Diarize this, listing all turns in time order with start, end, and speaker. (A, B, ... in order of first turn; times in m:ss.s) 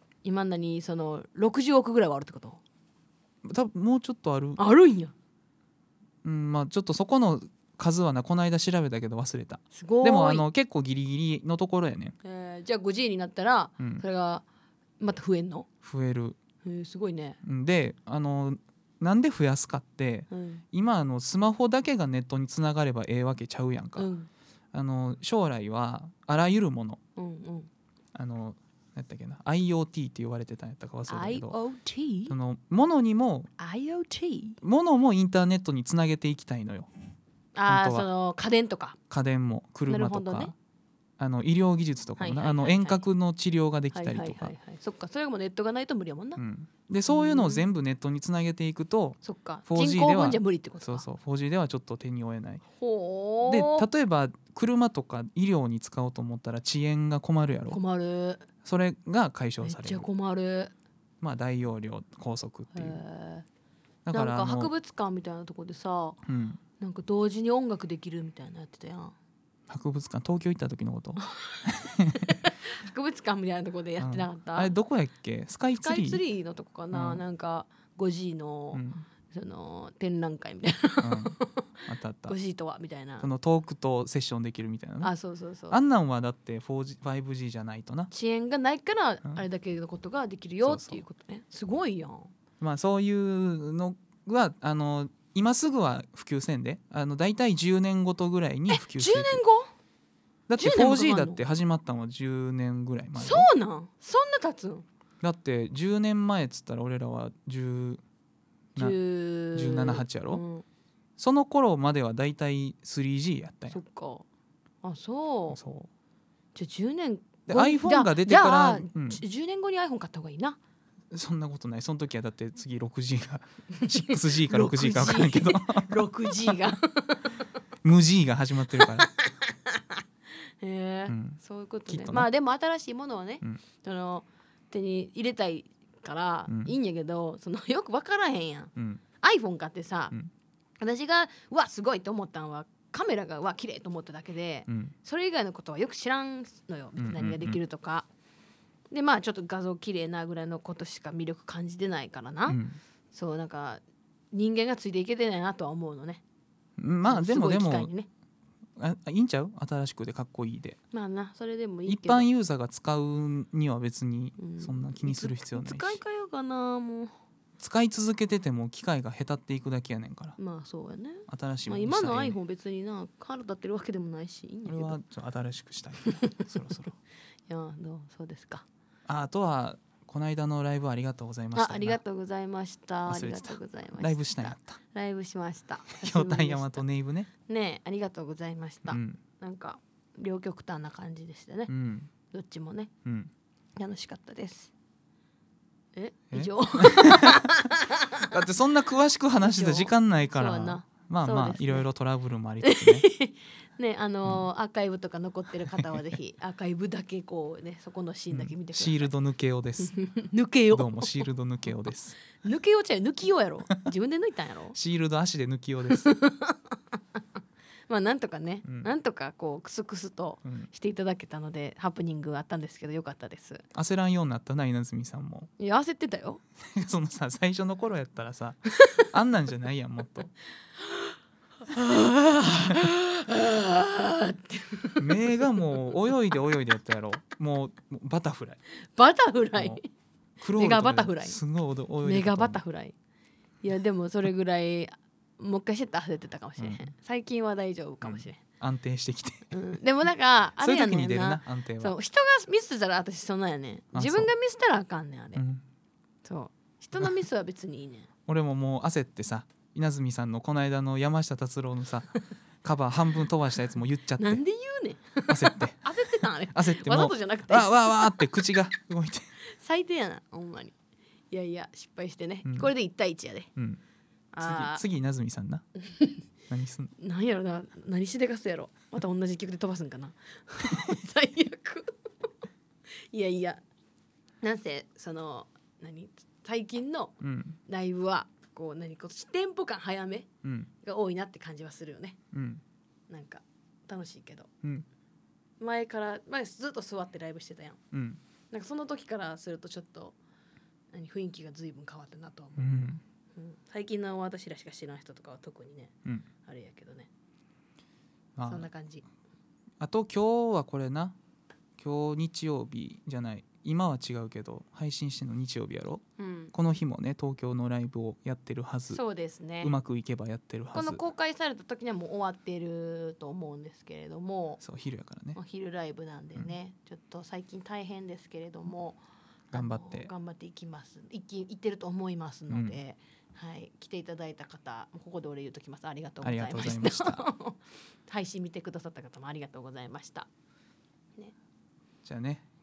0:00.2-0:02.6 A
0:03.4-0:04.6 B
0:04.6-0:05.1 A
0:06.2-0:12.1 B
0:09.7-0:10.5 A
0:12.2-0:14.4 A
0:13.8-0:14.0 B
0:15.0-0:15.7 A
0:15.8-0:16.4 B
0:16.6-0:17.4 A
0:17.4-0:24.1 B
0:20.3-0:20.6 A
0:24.0-0:24.3 A
0:24.7-0:27.0 B
0:27.2-0:27.7 A
0:28.1-0:31.6 B
0:31.1-0:32.4 A
0:32.3-0:33.5 B
0:33.6-0:34.6 A
0:34.6-0:36.9 B
0:37.5-0:39.0 A
0:37.6-0:38.1 B
0:39.1-0:40.5 B
0:39.9-0:40.5 A
0:41.2-0:44.5 B
0:42.2-0:43.0 A
0:43.9-0:46.4 A
0:46.4-0:52.6 B
0:47.1-0:47.6 A
0:49.2-0:51.0 A
0:52.8-0:53.9 A
0:53.4-0:57.8 B
0:57.7-0:58.5 A
0:58.6-1:00.1 B
0:59.6-1:00.7 A
1:01.2-1:03.0 B
1:02.7-1:03.4 A
1:04.0-1:04.7 B
1:04.1-1:06.2 A
1:06.2-1:06.6 B
1:06.8-1:09.1 A
1:09.7-1:12.3 B
1:11.3-1:11.6 A
1:12.1-1:14.7 A
1:14.0-1:16.2 B
1:15.8-1:23.3 A
1:16.9-1:17.2 B
1:18.7-1:19.0 B
1:21.0-1:22.4 B
1:23.2-1:25.1 B
1:25.0-1:25.8 A
1:25.7-1:28.1 B
1:28.1-1:32.3 A
1:30.6-1:31.0 B
1:32.6-1:39.4 B
1:38.7-1:39.7 A
1:40.5-1:43.5 B
1:40.6-1:41.4 A
1:43.2-1:44.8 A
1:45.2-1:48.0 B
1:48.8-1:50.6 A
1:49.5-1:50.4 B
1:51.2-1:53.8 B
1:53.7-1:54.2 A
1:54.8-1:55.6 A
1:55.5-1:55.9 B
1:56.5-2:00.6 A
1:57.5-1:59.2 B
2:01.1-2:05.9 B
2:03.8-2:07.2 A
2:07.8-2:09.1 B
2:08.7-2:10.0 A
2:10.6-2:20.1 A
2:11.1-2:12.3 B
2:16.5-2:16.7 B
2:18.8-2:19.0 B
2:20.8-2:28.1 A
2:24.7-2:24.9 B
2:27.0-2:27.6 B
2:28.9-2:32.6 A
2:32.4-2:32.8 B
2:33.1-2:36.2 A
2:36.8-2:37.9 B
2:37.0-2:38.1 A
2:38.8-2:40.8 B
2:40.9-2:42.3 A
2:41.9-2:46.0 B
2:44.4-2:47.1 A
2:47.6-2:50.4 B
2:50.4-2:55.0 A
2:51.3-2:52.4 B
2:54.6-2:57.0 B
2:56.0-2:56.3 A
2:57.5-2:58.6 A
2:59.1-3:02.0 B
3:01.5-3:06.8 A
3:03.1-3:04.8 B
3:05.9-3:07.3 B
3:07.5-3:11.7 A
3:08.9-3:09.2 B
3:11.7-3:12.1 B
3:12.3-3:12.9 A
3:13.0-3:13.3 B
3:13.8-3:14.7 A
3:15.9-3:18.3 A
3:16.3-3:17.5 B
3:18.2-3:23.1 B
3:19.4-3:21.9 A
3:22.6-3:29.1 A
3:28.3-3:30.0 B
3:29.9-3:31.3 A
3:30.7-3:32.2 B
3:32.4-3:34.8 A
3:34.7-3:36.1 B
3:35.9-3:37.2 A
3:37.9-3:43.6 A
3:43.7-3:45.5 B
3:45.6-3:46.4 A
3:46.7-3:50.3 B
3:50.8-3:55.4 A
3:55.0-3:58.6 B
3:58.9-3:59.8 A
3:59.6-3:59.8 B
4:00.4-4:02.6 B
4:00.5-4:01.4 A
4:02.0-4:02.9 A
4:03.6-4:08.4 A
4:06.6-4:06.9 B
4:08.0-4:09.6 B
4:09.5-4:15.4 A
4:10.6-4:11.9 B
4:13.9-4:14.3 B
4:15.3-4:15.6 B
4:16.2-4:18.1 A
4:18.3-4:24.4 B
4:24.2-4:28.3 A
4:25.3-4:25.8 B
4:26.5-4:29.3 B
4:29.5-4:30.7 A
4:31.3-4:33.5 A
4:32.4-4:32.7 B
4:34.3-4:34.8 A
4:34.4-4:35.6 B
4:35.8-4:36.2 A
4:36.5-4:36.9 B
4:37.0-4:42.0 A
4:43.1-4:43.6 A
4:44.4-4:47.2 A
4:47.2-4:47.6 B
4:47.7-4:50.3 A
4:50.4-4:50.7 B
4:50.8-4:52.2 A
4:52.3-4:52.6 B
4:53.1-4:54.5 A
4:55.6-4:57.8 A
4:57.9-4:58.2 B
4:58.5-5:00.2 A
5:00.9-5:02.8 A
5:02.6-5:03.0 B
5:03.3-5:07.1 A
5:08.4-5:08.7 B
5:08.4-5:09.0 A
5:09.8-5:11.1 B
5:11.8-5:19.0 B
5:16.2-5:16.5 A
5:18.9-5:19.8 A
5:19.6-5:21.0 B
5:20.7-5:24.6 A
5:24.6-5:25.4 B
5:25.3-5:29.0 A
5:29.5-5:30.1 B
5:29.5-5:40.3 A
5:32.5-5:32.8 B
5:36.2-5:37.3 B
5:42.0-5:42.4 B